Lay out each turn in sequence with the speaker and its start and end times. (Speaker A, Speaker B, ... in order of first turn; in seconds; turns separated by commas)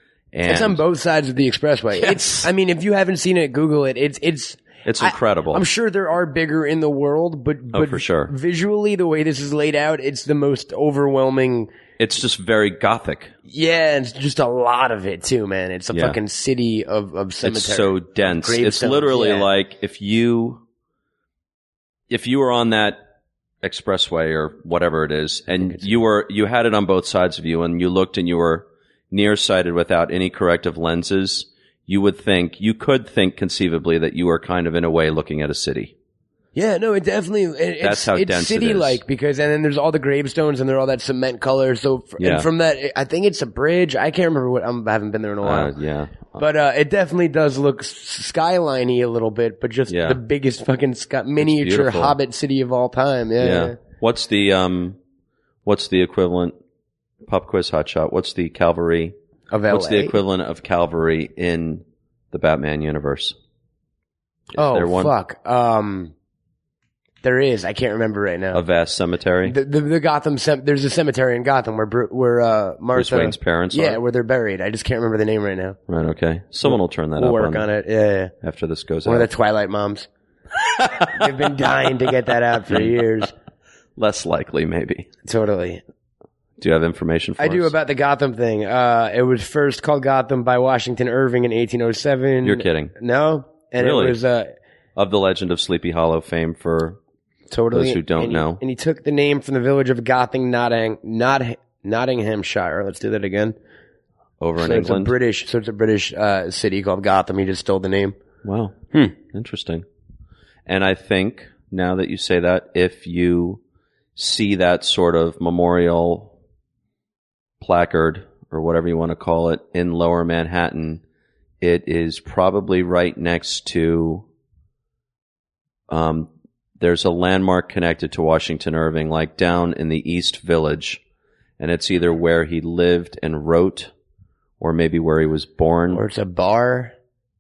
Speaker A: 0.3-0.8, Speaker B: 0.5-11.7, Speaker A: 1.9-2.5, Speaker A: 4.8-5.7, Speaker A: 7.7-8.3, Speaker A: 12.0-13.3, Speaker B: 13.5-19.5, Speaker A: 15.9-16.2, Speaker A: 17.4-20.6, Speaker A: 22.1-23.0, Speaker A: 23.6-35.9, Speaker B: 25.6-25.9, Speaker B: 36.5-45.7, Speaker A: 37.8-39.0, Speaker A: 42.2-42.5, Speaker A: 45.4-46.4, Speaker B: 46.4-53.8, Speaker A: 49.9-50.2, Speaker A: 51.4-52.2, Speaker A: 53.4-55.0, Speaker A: 55.6-56.5, Speaker A: 57.3-59.1, Speaker B: 59.5-60.2, Speaker A: 59.7-63.4, Speaker A: 64.5-65.1, Speaker B: 64.6-66.1, Speaker B: 67.2-68.6, Speaker A: 68.5-69.6, Speaker B: 69.5-75.8, Speaker A: 72.9-74.0, Speaker A: 75.9-77.7, Speaker B: 76.7-78.3, Speaker A: 78.4-79.3, Speaker B: 79.1-80.1, Speaker A: 80.8-81.1, Speaker B: 81.0-83.3, Speaker A: 82.7-83.0, Speaker A: 84.0-85.1, Speaker B: 85.2-85.8, Speaker A: 86.6-87.7, Speaker B: 87.4-94.5, Speaker A: 92.4-92.9, Speaker A: 93.8-94.2, Speaker A: 95.0-97.0, Speaker B: 97.5-103.6, Speaker A: 97.7-98.6, Speaker A: 104.4-105.2, Speaker B: 104.6-108.2, Speaker A: 108.4-108.7, Speaker A: 109.3-109.8, Speaker A: 110.7-113.6, Speaker A: 114.2-116.3, Speaker A: 117.6-121.0, Speaker A: 121.6-124.2, Speaker A: 125.9-131.0, Speaker A: 131.6-133.9, Speaker A: 134.6-136.0, Speaker B: 135.9-136.9